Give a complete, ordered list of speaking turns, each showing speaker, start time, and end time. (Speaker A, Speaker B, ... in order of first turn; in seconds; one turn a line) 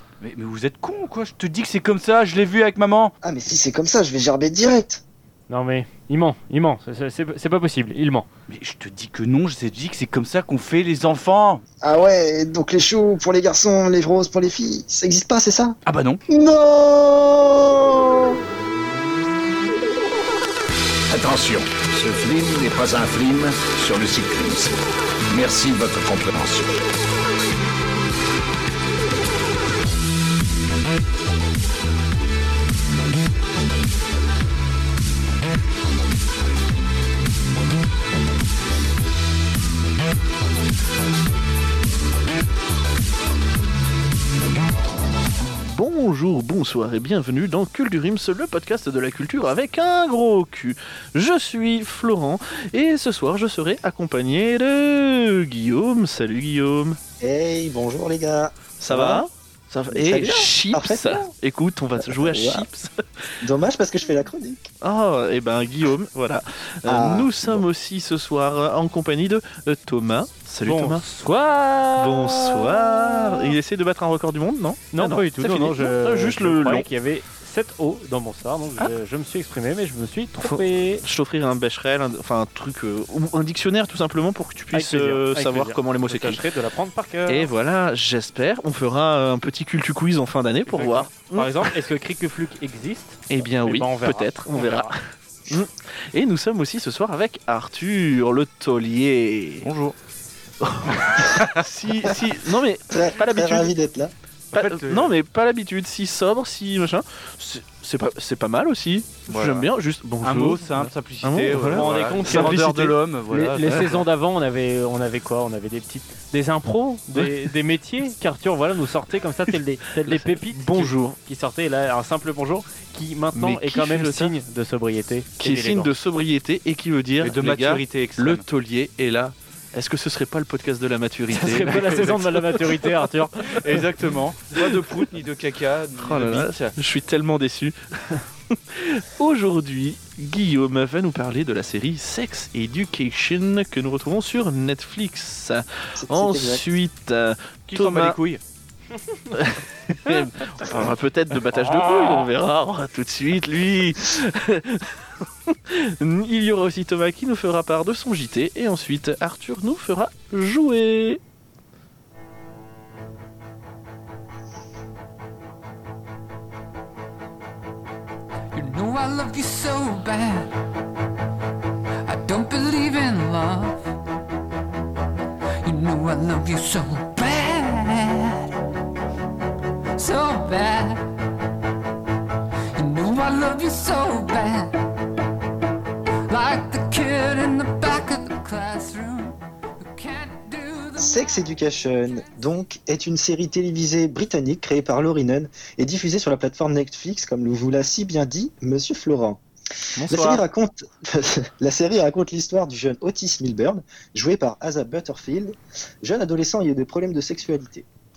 Speaker A: 0.2-3.1
Speaker B: 3.2-5.0
Speaker C: 5.5-8.3
Speaker A: 8.5-11.6
Speaker B: 11.8-15.8
Speaker A: 15.9-16.2
Speaker B: 16.3-18.4
Speaker D: 21.1-24.8
Speaker D: 25.3-26.7
Speaker E: 45.6-57.0
Speaker B: 57.2-59.3
Speaker E: 58.8-62.9
Speaker B: 59.9-61.3
Speaker B: 62.0-62.7
Speaker B: 63.4-64.7
Speaker E: 64.8-71.1
Speaker B: 66.9-67.6
Speaker C: 70.6-73.5
Speaker E: 72.0-76.9
Speaker C: 74.9-81.0
Speaker E: 80.4-86.4
Speaker C: 84.7-87.5
Speaker E: 87.3-91.7
Speaker C: 90.7-94.9
Speaker E: 93.3-99.7
Speaker A: 99.6-100.0
Speaker E: 100.6-103.8
Speaker B: 102.9-104.1
Speaker A: 104.5-105.2
Speaker E: 104.5-113.0
Speaker A: 109.3-109.7
Speaker A: 110.2-114.0
Speaker C: 111.7-112.7
Speaker C: 113.3-125.9
Speaker E: 113.6-114.0
Speaker E: 120.0-121.2
Speaker E: 123.3-124.4
Speaker E: 125.4-132.9
Speaker A: 127.2-128.5
Speaker C: 131.3-133.6
Speaker A: 133.6-136.7
Speaker E: 136.0-148.2
Speaker B: 146.0-146.7
Speaker A: 147.7-148.4
Speaker E: 149.3-161.2
Speaker C: 151.8-152.1
Speaker F: 168.5-170.5
Speaker F: 172.0-173.8
Speaker F: 175.6-178.6
Speaker F: 180.0-181.1
Speaker F: 182.8-184.8
Speaker F: 186.3-191.5
Speaker B: 191.0-199.4
Speaker E: 200.0-200.4
Speaker B: 200.1-207.9